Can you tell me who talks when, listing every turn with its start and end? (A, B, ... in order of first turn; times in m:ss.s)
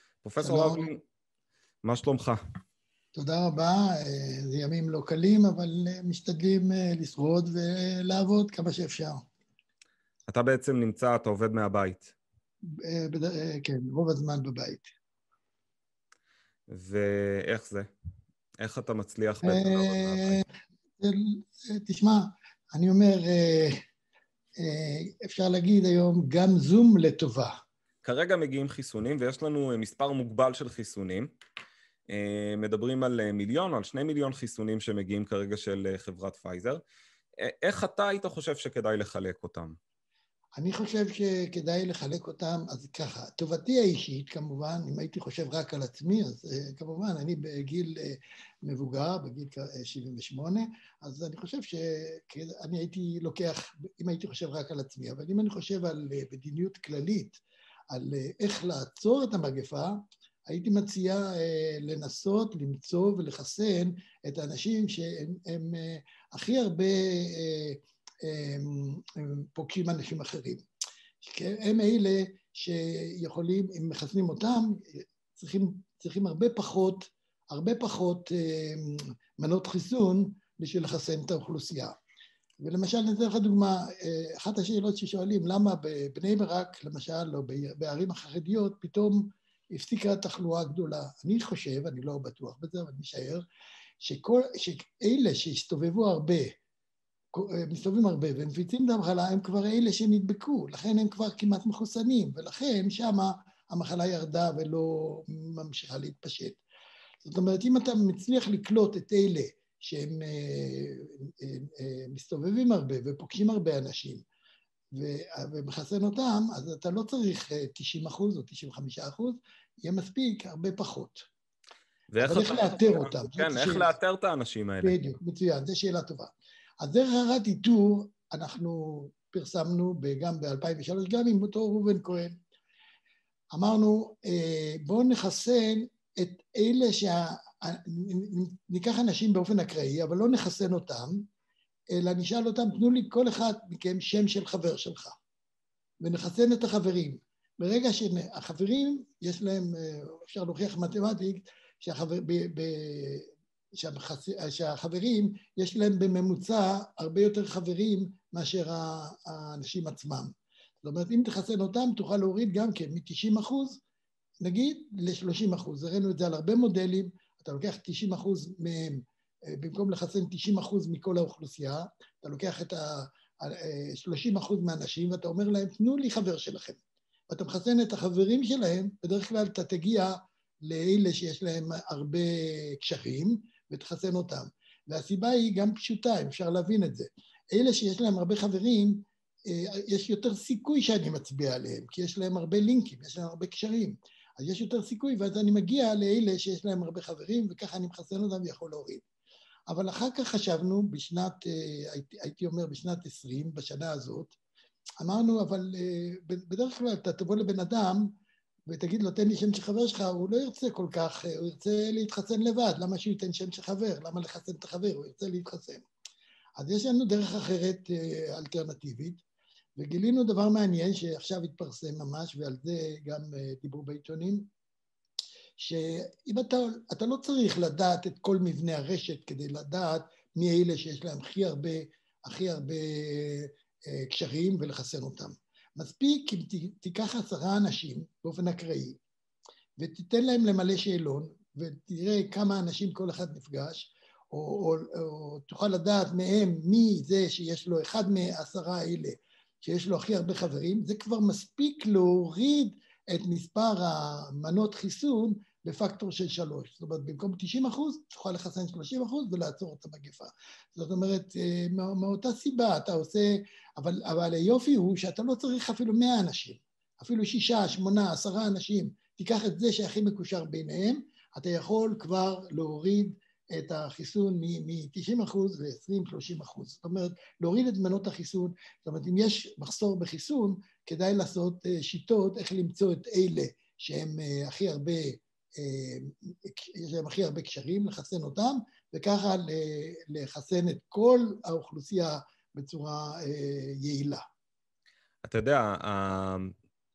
0:00.2-0:01.0 A
0:00.4-0:00.9 B
0:01.8-0:02.4 A
0:03.1-0:09.2 B
0:10.3-0:12.1 A
0:12.8-0:14.9 B
0:16.7-0:17.9 A
0:18.6-0:20.4 A
0:19.4-0:20.4 B
0:21.0-0:23.7 B
0:24.6-0:27.5 B
0:28.0-0:31.3 A
0:32.1-0:36.8 A
0:37.4-0:39.8 A
0:40.6-1:00.0 B
1:00.5-1:10.6 B
1:11.2-1:21.9 B
1:22.6-1:33.4 B
1:34.0-1:36.5 B
1:37.3-1:46.6 B
1:47.2-1:54.2 B
1:54.9-2:01.2 B
2:02.1-2:05.0 A
2:02.2-2:03.9 B
2:04.8-2:12.3 B
2:13.5-2:21.2 B
2:21.9-2:25.1 B
2:26.0-2:40.3 B
2:40.8-2:43.8 B
2:44.4-2:56.8 B
2:57.3-3:00.1 B
3:00.6-3:09.0 B
3:09.5-3:19.0 B
3:19.7-3:24.4 B
3:25.0-3:28.0 B
3:28.7-3:35.8 B
3:36.6-3:39.2 B
3:39.8-3:44.5 B
3:45.6-3:59.0 B
3:59.8-4:54.2 B
4:55.2-4:56.5 A